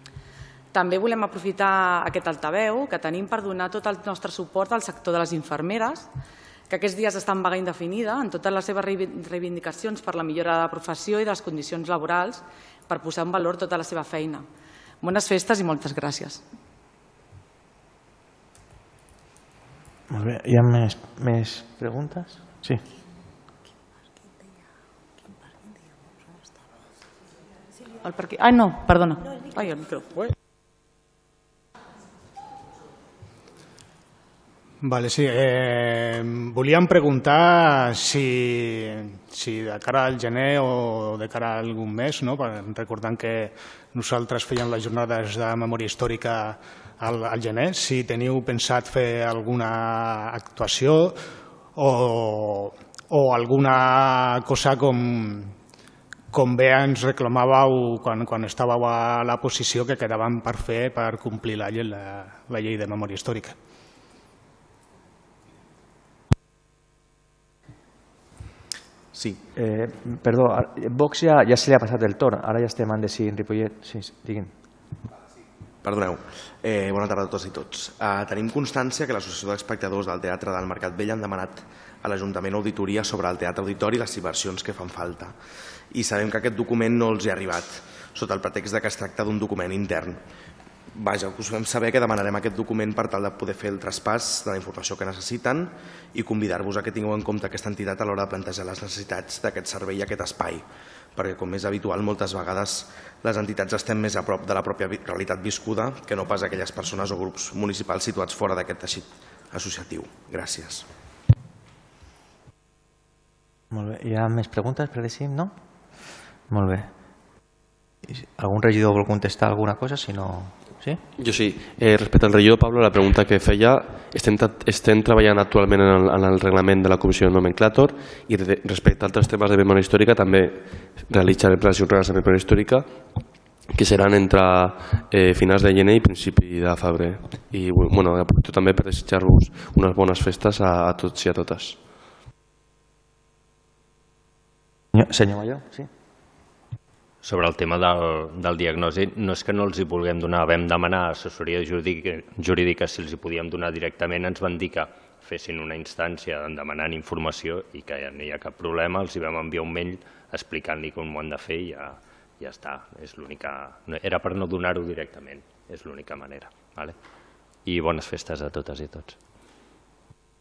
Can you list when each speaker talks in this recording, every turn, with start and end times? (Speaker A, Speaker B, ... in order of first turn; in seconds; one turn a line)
Speaker A: 0.7-6.1
Speaker A: 6.7-14.4
Speaker A: 15.0-16.4
Speaker B: 20.1-22.8
Speaker A: 28.0-30.3
Speaker C: 34.8-51.2
Speaker C: 51.8-55.5
Speaker C: 56.3-63.5
Speaker D: 69.1-69.4
Speaker B: 69.5-74.5
Speaker D: 75.8-85.3
Speaker D: 85.9-90.2
Speaker D: 90.9-110.9
Speaker B: 113.7-115.5
Speaker B: 116.5-116.9
Speaker B: 118.1-121.0
Speaker E: 121.2-132.9
Speaker E: 133.7-141.8
Speaker B: 144.9-145.9
Speaker F: 147.2-166.9
Speaker F: 167.7-169.2